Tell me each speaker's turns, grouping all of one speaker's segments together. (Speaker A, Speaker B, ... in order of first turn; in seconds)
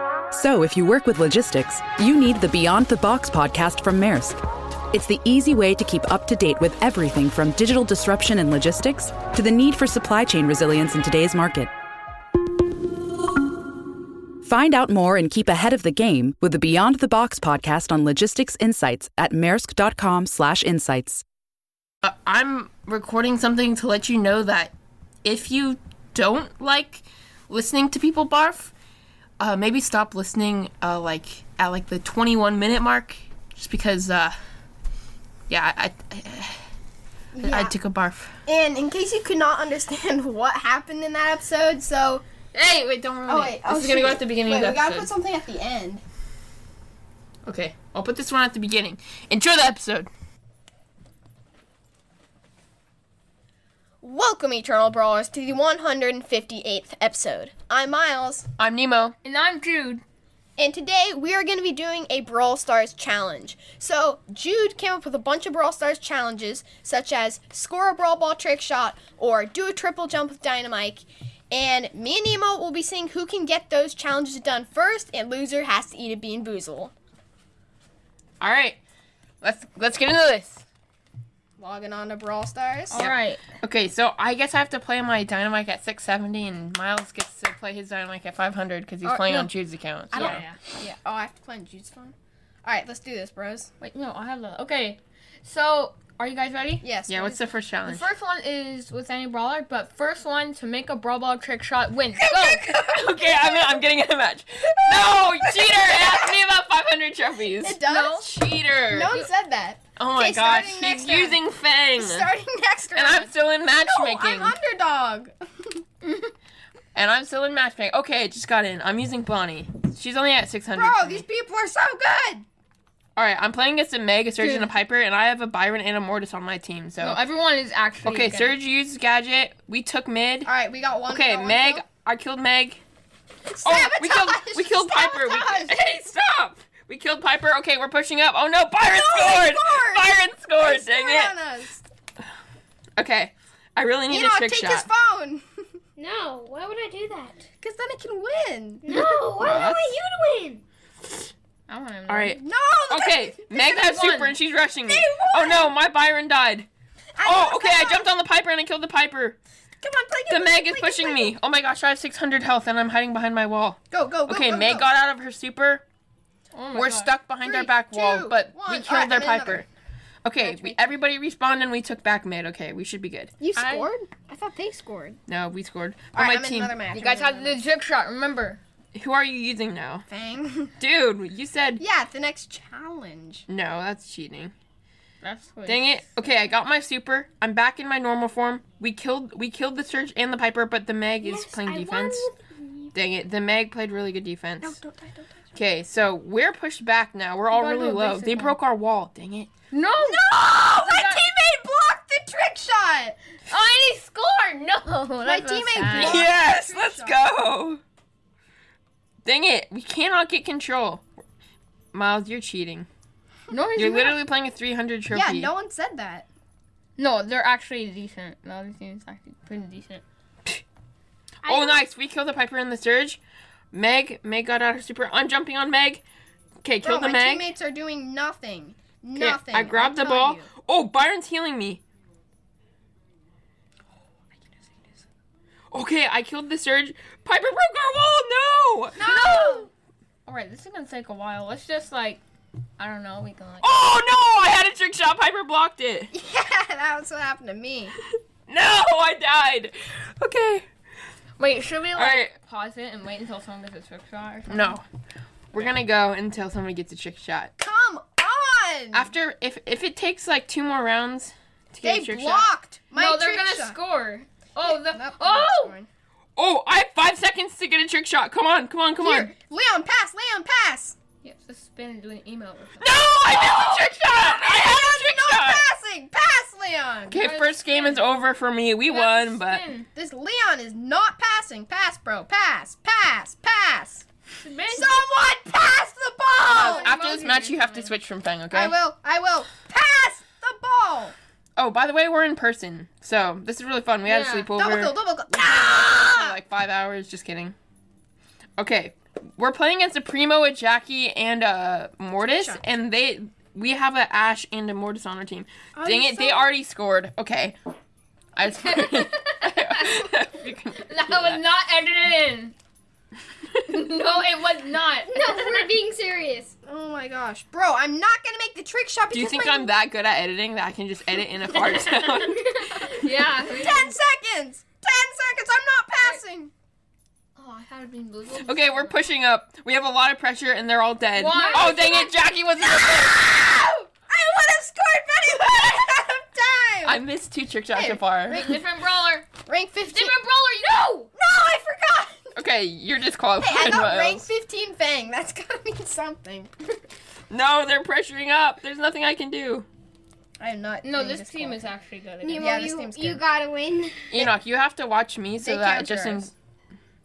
Speaker A: 0.3-4.4, 4.9-11.7, 14.4-21.2
Speaker B: 22.0-24.7, 25.2-28.7, 29.4-34.4, 35.5-36.6, 37.4-38.4, 42.5-45.1, 47.5-50.1, 58.6-59.1, 78.4-78.8, 79.4-80.6, 83.0-90.4, 97.1-98.0, 102.2-109.2, 110.0-112.3, 112.9-114.5, 116.9-121.2, 123.2-127.2, 128.0-130.5, 131.1-132.8, 133.6-141.3, 143.0-144.9, 149.2-149.8, 152.1-156.7, 157.2-159.4, 160.3-165.8, 166.7-169.7, 170.2-173.3, 175.3-176.7, 178.9-180.0, 180.8-181.8, 183.5-184.5, 185.7-192.3, 192.9-194.8, 195.5-199.5, 205.9-207.8, 209.2-211.0, 211.9-212.9, 213.8-215.5, 221.4-223.2, 223.7-226.0, 226.6-227.5, 229.2-231.8, 235.7-239.4, 243.6-246.1, 248.5-250.7, 251.9-252.3, 254.5-254.8, 255.5-257.5, 258.9-262.5, 266.4-269.3, 272.8-275.6, 277.1-279.6, 286.5-288.8, 291.6-297.6, 298.6-307.6, 308.4-311.4, 319.1-323.0, 328.4-333.3, 336.8-338.5, 342.3-344.2, 347.3-349.6, 354.1-356.3
Speaker C: 37.3-37.7, 38.5-42.2, 43.3-46.0, 54.0-58.5, 60.6-76.9, 81.6-83.0, 90.1-93.7, 96.8-97.4, 102.5-103.8, 104.7-106.3, 107.6-108.3, 108.9-111.4, 112.0-115.8, 120.8-122.5, 130.4-131.8, 133.5-135.7, 138.8-141.8, 144.1-145.4, 147.6-149.2, 152.3-154.3, 154.9-155.7, 157.2-158.1, 159.8-161.3, 163.9-164.8, 167.4-169.6, 170.4-170.9, 173.4-175.2, 176.1-177.6, 180.1-180.7, 181.8-183.4, 200.0-203.2, 205.2-207.2, 215.1-216.3, 226.8-230.5, 239.0-239.7, 246.1-248.0, 257.6-259.1, 261.8-263.8, 264.6-265.9, 269.0-271.0, 273.2-277.2, 279.9-284.0, 284.7-287.2, 288.5-291.1, 294.5-296.4, 302.2-302.6, 305.7-306.5, 316.6-319.7, 323.4-326.5, 332.6-337.0, 337.7-338.6, 339.4-340.1, 341.1-342.4, 343.4-346.5, 350.4-351.7, 352.3-353.2, 355.4-356.3
Speaker D: 59.2-60.0, 82.9-83.5, 89.0-89.5, 90.1-91.0, 93.8-96.8, 97.8-102.7, 107.8-108.3, 116.0-116.3, 124.4-124.7, 127.0-128.6, 151.7-152.4, 153.7-154.3, 166.5-167.1, 173.5-173.9, 176.9-178.6, 185.2-186.0, 197.5-198.6, 199.7-200.2, 200.8-201.2, 203.5-206.3, 213.5-214.2, 217.0-220.0, 239.0-239.7, 240.2-242.2, 242.8-243.7, 251.4-254.8, 262.9-265.8, 271.2-272.9, 277.1-278.1, 278.9-279.9, 284.4-285.0, 286.5-287.9, 294.0-294.5, 308.4-310.1, 310.8-312.5, 313.7-315.7, 321.6-323.9, 327.4-329.1, 331.1-332.1, 338.3-339.3, 339.9-341.1, 350.8-352.7
Speaker E: 146.0-147.4, 148.8-150.6, 191.2-192.9, 194.6-195.4, 221.4-221.8, 315.1-316.6, 331.3-331.9, 352.2-354.1